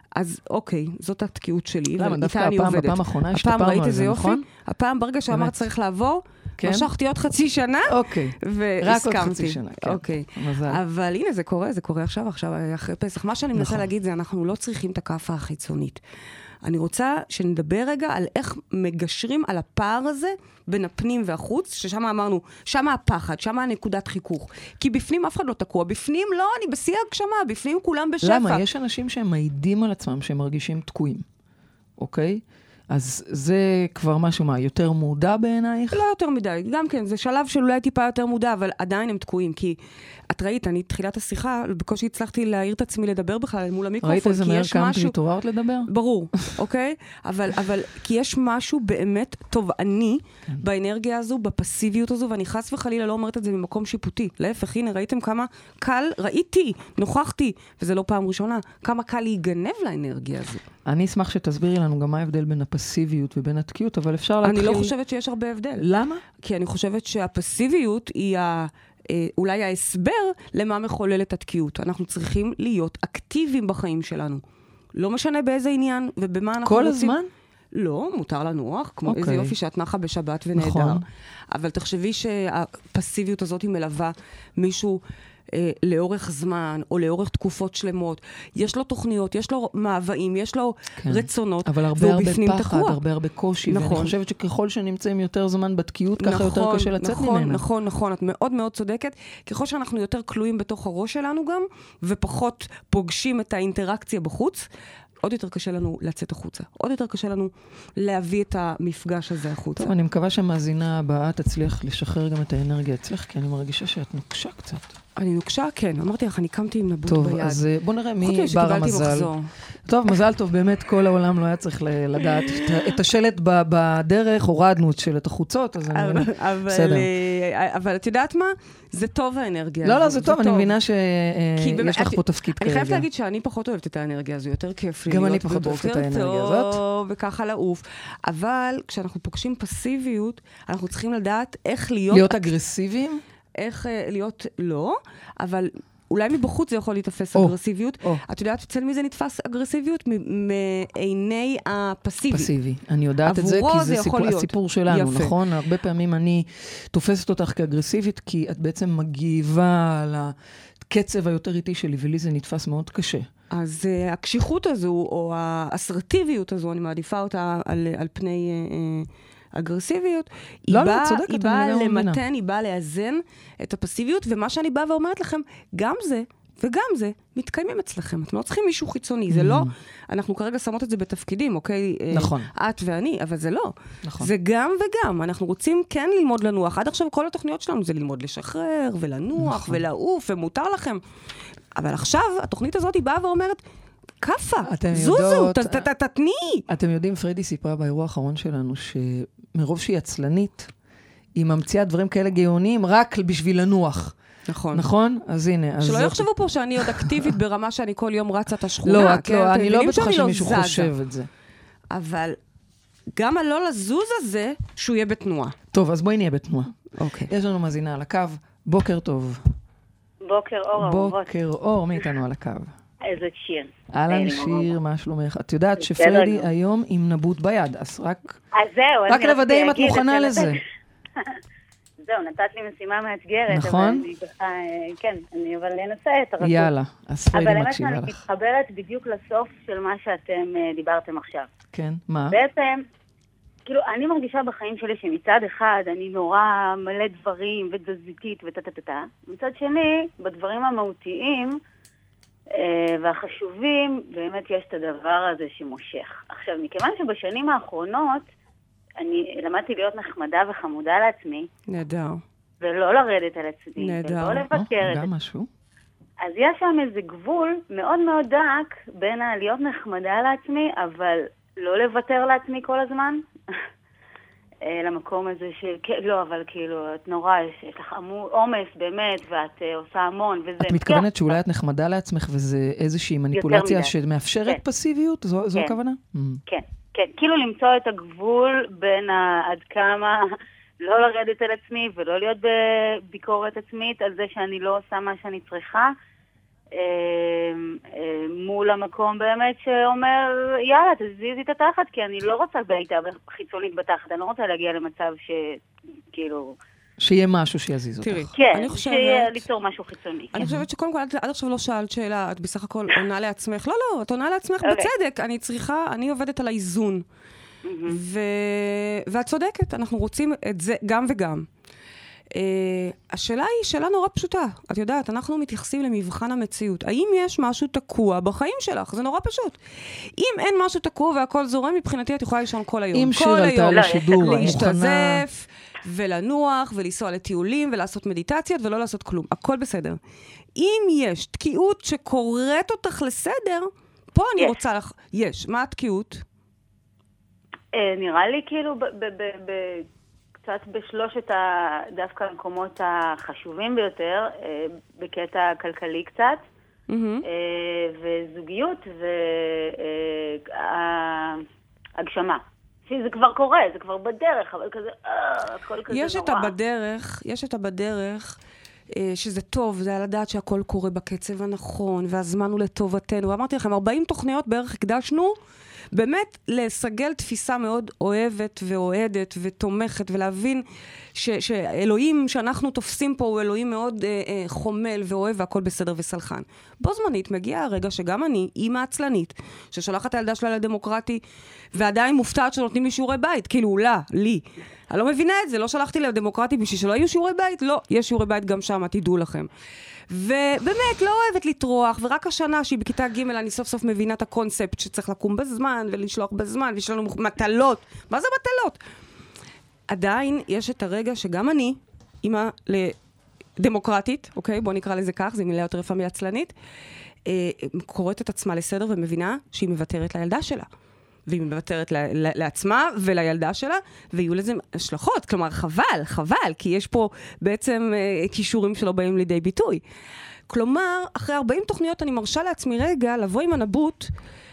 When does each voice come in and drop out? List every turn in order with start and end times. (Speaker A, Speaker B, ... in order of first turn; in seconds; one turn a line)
Speaker A: 0.1-16.0
Speaker B: 2.0-4.5
Speaker B: 5.3-5.7
Speaker B: 6.6-6.9
Speaker B: 7.9-10.8
Speaker B: 13.6-13.9
Speaker A: 16.6-28.6
Speaker B: 28.2-31.2
Speaker B: 32.0-36.0
Speaker A: 35.9-39.8
Speaker A: 40.3-45.2
Speaker B: 44.0-46.6
Speaker A: 45.9-60.6
Speaker B: 60.9-64.9
Speaker A: 64.4-65.9
Speaker B: 65.8-66.2
Speaker A: 66.4-74.4
Speaker A: 75.0-77.2
Speaker B: 76.6-77.3
Speaker A: 77.7-93.0
Speaker B: 79.1-79.5
Speaker B: 80.5-81.0
Speaker B: 91.0-97.6
Speaker A: 93.7-94.1
Speaker A: 96.2-104.7
Speaker A: 105.2-109.9
Speaker B: 109.8-114.9
Speaker A: 115.2-117.6
Speaker B: 117.1-119.3
Speaker A: 118.2-119.5
Speaker B: 119.8-127.1
Speaker A: 125.9-130.7
Speaker B: 129.8-133.1
Speaker A: 131.6-142.4
Speaker B: 135.1-136.8
Speaker B: 142.1-143.2
Speaker A: 143.6-152.5
Speaker B: 147.3-148.2
Speaker B: 152.3-163.3
Speaker A: 153.2-155.3
Speaker A: 163.5-191.0
Speaker B: 170.7-172.2
Speaker B: 179.3-179.7
Speaker B: 182.1-182.5
Speaker B: 184.0-184.3
Speaker B: 189.4-189.8
Speaker A: 191.8-193.6
Speaker A: 194.2-196.7
Speaker B: 194.6-195.8
Speaker B: 196.7-200.7
Speaker B: 201.4-204.2
Speaker A: 204.5-204.9
Speaker B: 204.7-207.3
Speaker A: 205.8-210.9
Speaker B: 208.8-211.3
Speaker A: 211.9-212.4
Speaker A: 213.1-215.6
Speaker B: 215.7-216.8
Speaker A: 217.0-217.3
Speaker B: 217.3-219.5
Speaker C: 220.2-221.3
Speaker B: 220.8-222.7
Speaker C: 223.0-224.8
Speaker B: 223.9-228.4
Speaker C: 225.8-226.5
Speaker C: 228.5-230.6
Speaker B: 229.1-230.6
Speaker C: 232.1-236.7
Speaker B: 233.5-234.1
Speaker B: 236.4-238.2
Speaker C: 237.3-241.5
Speaker B: 241.7-242.4
Speaker C: 242.3-242.8
Speaker C: 243.7-251.6
Speaker C: 252.5-258.3
Speaker C: 259.0-261.5
Speaker A: 261.7-262.2
Speaker C: 262.6-265.1
Speaker A: 263.8-264.4
Speaker B: 264.5-265.5
Speaker C: 266.2-273.2
Speaker C: 274.6-281.1
Speaker B: 280.6-286.4
Speaker C: 283.3-283.9
Speaker C: 286.5-295.9
Speaker C: 296.7-305.6
Speaker C: 306.1-306.6
Speaker B: 307.0-308.3
Speaker A: 308.0-309.4
Speaker C: 308.4-310.5
Speaker A: 310.3-317.1
Speaker B: 310.4-310.7
Speaker C: 314.6-314.9
Speaker C: 317.6-318.0
Speaker A: 317.9-321.5
Speaker A: 322.3-340.0
Speaker B: 332.9-335.2
Speaker C: 333.7-334.6
Speaker A: 340.6-346.2
Speaker C: 347.7-349.9
Speaker C: 350.4-356.4
Speaker A: 356.9-357.2
Speaker C: 357.3-361.4
Speaker C: 362.0-366.5
Speaker A: 365.9-368.4
Speaker A: 368.9-375.4
Speaker A: 375.9-391.2
Speaker A: 391.7-399.5
Speaker A: 400.1-408.8
Speaker A: 409.9-413.0
Speaker A: 413.6-416.5
Speaker A: 417.3-420.7
Speaker A: 421.3-429.8
Speaker A: 430.5-434.1